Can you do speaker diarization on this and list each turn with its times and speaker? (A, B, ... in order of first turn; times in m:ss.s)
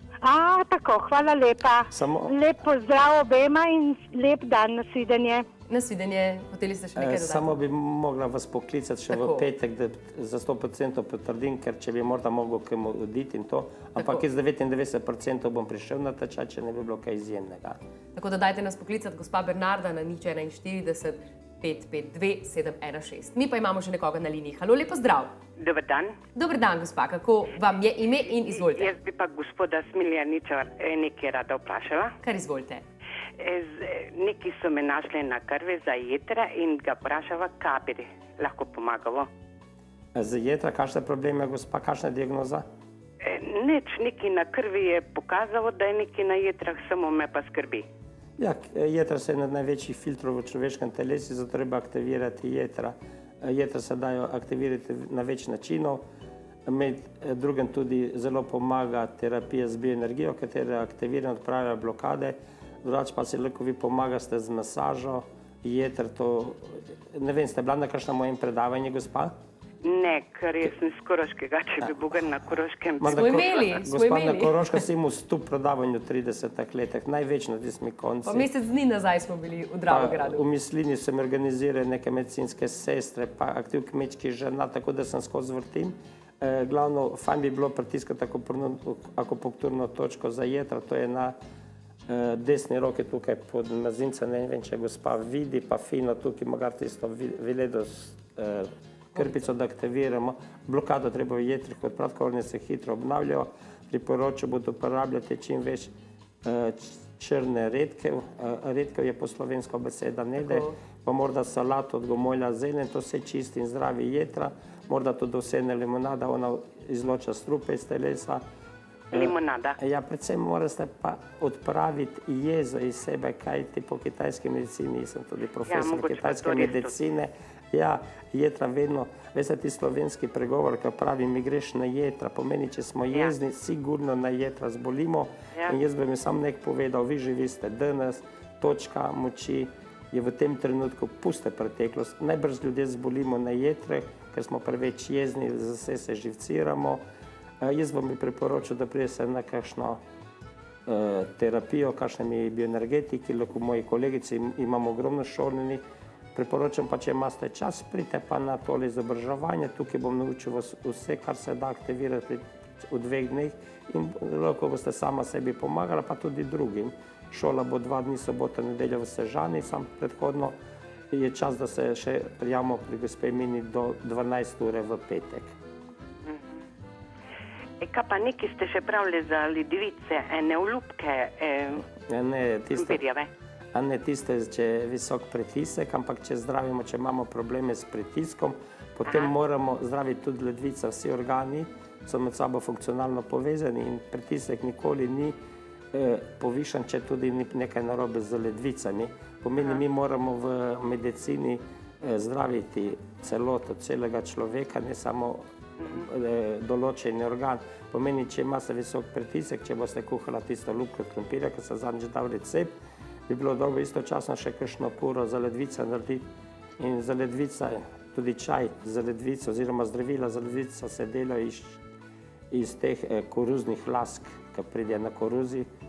0:00.2-0:05.5 A
0:01.9-0:02.4 B
0:05.7-0:07.6 C
0:07.0-0:17.8 B
0:09.1-0:09.5 C
0:14.0-0:14.2 C
0:18.1-0:25.3 C
0:25.6-0:26.2 D
0:26.4-0:28.9 C
0:28.5-0:32.2 D
0:32.2-0:32.8 C
0:33.4-0:39.3 D
0:40.1-0:42.6 B
0:43.2-0:47.9 D
0:48.4-0:56.0 B
0:56.6-1:09.3 B
1:09.8-1:13.5 D
1:13.0-1:18.5 B
1:13.1-1:14.6 C
1:18.2-1:20.4 C
1:19.9-1:31.4 B
1:32.1-1:45.9 B
1:46.4-1:58.4 B
1:50.4-1:50.8 C
1:59.1-1:59.8 D
1:59.1-2:27.0 B
2:05.6-2:06.9 D
2:27.6-2:30.0 B
2:30.9-2:35.8 B
2:36.3-2:50.6 B
2:51.1-2:55.5 B
2:56.2-2:56.6 D
2:57.8-3:01.9 D
3:02.1-3:03.0 B
3:02.8-3:03.3 D
3:03.7-3:15.4 B
3:15.9-3:32.7 B
3:33.3-3:36.2 B
3:36.8-3:41.8 B
3:42.5-3:45.7 B